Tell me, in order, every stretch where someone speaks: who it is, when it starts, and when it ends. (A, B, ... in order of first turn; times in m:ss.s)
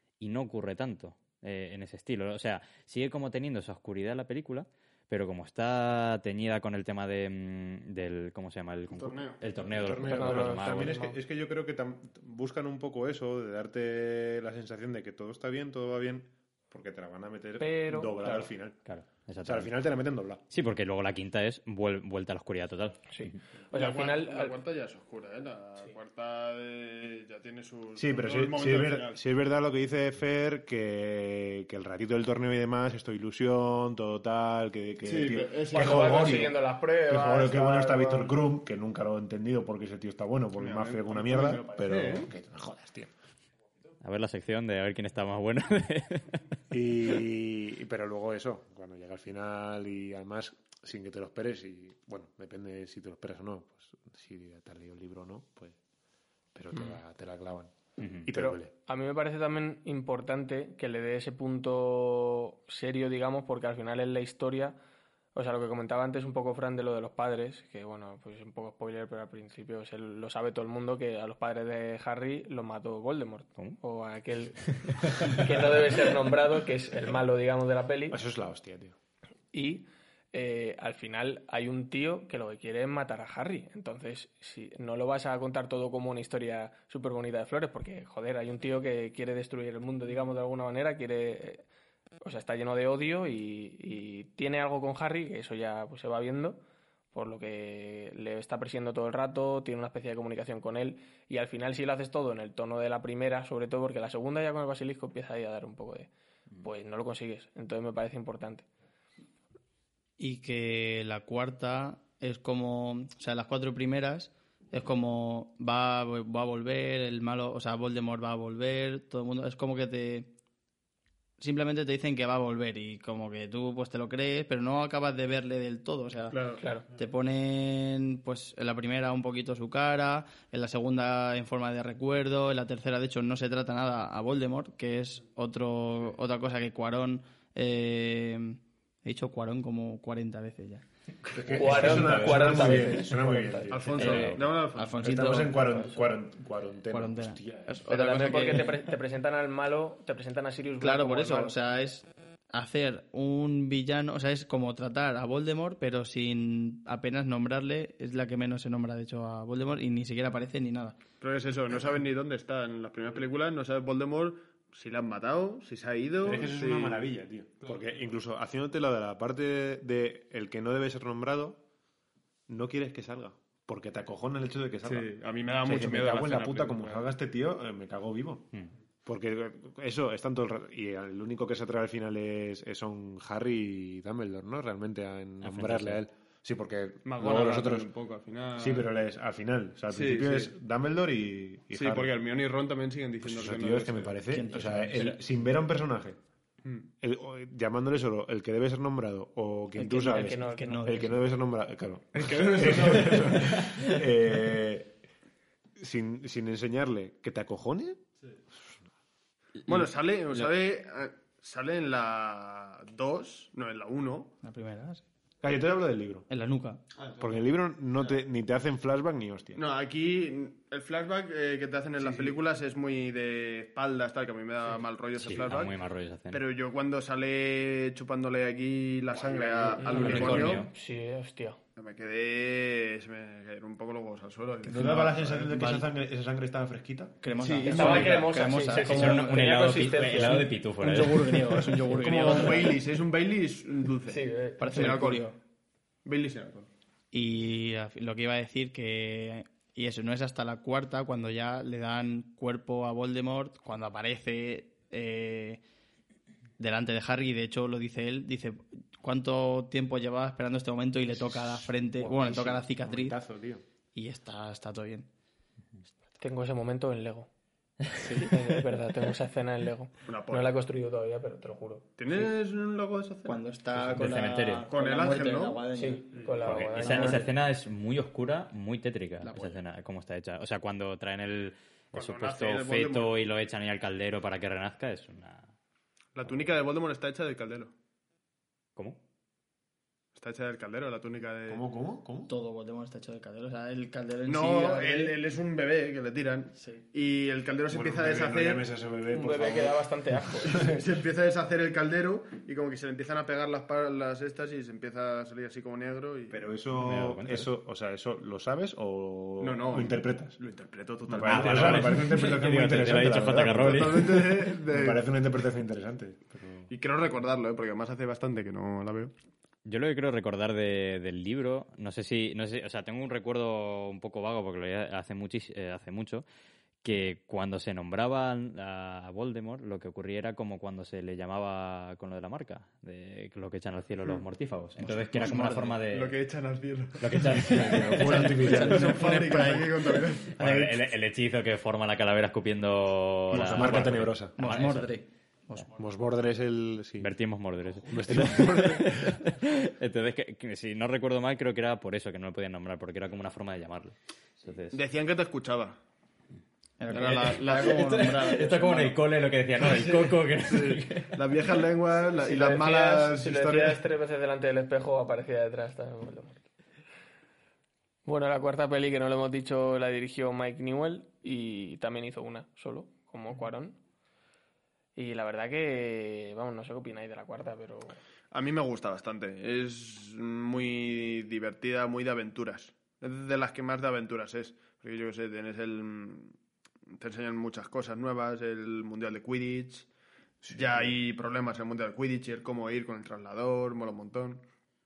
0:00.2-0:11.0 A
0:08.9-0:09.5 B
0:09.7-0:18.8 C
0:10.0-0:11.2 D
0:17.6-0:18.5 D
0:18.8-0:19.7 A
0:19.4-0:20.4 C
0:20.5-0:23.4 A
0:23.1-0:24.5 D
0:23.7-0:29.2 B
0:28.0-0:43.1 C
0:35.0-0:36.5 B
0:35.7-0:38.3 D
0:40.6-0:42.3 B
0:44.0-0:46.4 A
0:46.7-0:55.8 C
0:56.5-0:58.7 C
0:58.0-0:58.3 A
0:58.3-1:04.8 D
1:05.3-1:18.2 D
1:18.1-1:19.0 C
1:19.5-1:31.6 D
1:32.2-1:36.6 D
1:37.1-1:46.1 D
1:46.6-1:48.7 D
1:50.2-2:00.3 E
2:01.4-2:20.8 E
2:06.3-2:06.6 B
2:06.6-2:06.8 D
2:21.3-2:27.7 C
2:21.5-2:23.7 D
2:21.6-2:23.0 E
2:21.8-2:22.8 A
2:23.7-2:25.2 B
2:24.0-2:24.4 A
2:24.7-2:25.8 E
2:25.6-2:26.1 D
2:26.9-2:28.8 E
2:27.9-2:31.5 D
2:30.8-2:41.0 E
2:41.2-2:47.1 B
2:46.2-2:51.6 C
2:52.5-2:58.5 C
2:54.8-2:57.1 B
2:59.0-3:07.9 C
3:05.4-3:06.0 A
3:07.0-3:08.9 B
3:08.6-3:12.1 C
3:09.9-3:10.5 B
3:11.7-3:14.2 B
3:13.2-3:16.2 C
3:14.3-3:15.2 E
3:16.6-3:16.9 B
3:17.0-3:24.9 C
3:19.7-3:21.2 E
3:19.9-3:20.9 D
3:22.2-3:23.7 B
3:25.8-3:28.0 C
3:29.7-3:34.3 B
3:34.4-3:35.0 E
3:35.4-3:36.3 C
3:36.3-3:36.8 E
3:37.2-3:39.6 C
3:39.6-3:45.7 B
3:42.0-3:42.3 C
3:45.2-3:46.4 A
3:46.3-3:50.6 B
3:49.8-3:51.6 D
3:49.8-3:50.7 A
3:49.9-3:50.6 E
3:51.8-3:55.4 B
3:54.6-3:55.9 E
3:54.8-3:57.2 C
3:57.2-4:02.8 E
3:57.4-3:58.3 B
3:57.6-4:00.4 D
3:57.7-3:58.2 C
3:58.7-4:01.6 A
4:01.3-4:05.2 B
4:04.1-4:05.0 D
4:04.6-4:05.4 E
4:06.0-4:06.7 B
4:07.1-4:15.6 E
4:16.6-4:23.2 E
4:21.3-4:23.6 C
4:23.9-4:25.1 E
4:26.2-4:27.3 D
4:28.0-4:28.4 A
4:28.3-4:31.9 D
4:30.0-4:30.5 B
4:32.0-4:33.4 B
4:33.2-4:37.2 E
4:33.8-4:34.7 A
4:34.7-4:35.6 B
4:35.7-4:37.2 D
4:36.2-4:37.1 B
4:36.5-4:45.5 A
4:39.2-4:39.6 E
4:41.9-4:43.1 B
4:46.2-4:47.7 B
4:50.2-4:51.6 B
4:51.5-4:52.3 C
4:52.3-4:55.2 E
4:54.2-4:58.6 B
4:56.6-4:56.8 E
4:57.7-4:59.9 C
4:59.1-5:00.7 D
5:00.4-5:00.7 C
5:00.4-5:06.4 B
5:06.3-5:10.4 C
5:06.8-5:07.5 A
5:09.4-5:12.2 B
5:11.1-5:16.7 C
5:11.2-5:14.4 A
5:13.4-5:15.1 B
5:16.7-5:19.1 B
5:19.6-5:26.2 A
5:26.8-5:36.1 A
5:34.8-5:35.8 E
5:35.8-5:37.6 B
5:37.0-5:38.4 A
5:37.5-5:39.0 C
5:38.0-5:40.1 E
5:38.5-5:40.8 B
5:40.3-5:44.9 A
5:43.3-5:44.6 C
5:44.4-5:45.7 E
5:45.7-5:47.1 C
5:47.0-5:54.8 A
5:47.8-5:49.1 C
5:54.7-5:55.8 B
5:56.8-5:59.0 E
5:56.9-5:58.4 B
5:56.9-6:01.2 A
5:59.7-6:03.8 B
6:02.1-6:06.4 D
6:08.0-6:13.8 D
6:15.0-6:18.0 D
6:18.3-6:26.3 B
6:27.0-6:29.9 B
6:30.4-6:31.0 C
6:30.5-6:34.4 B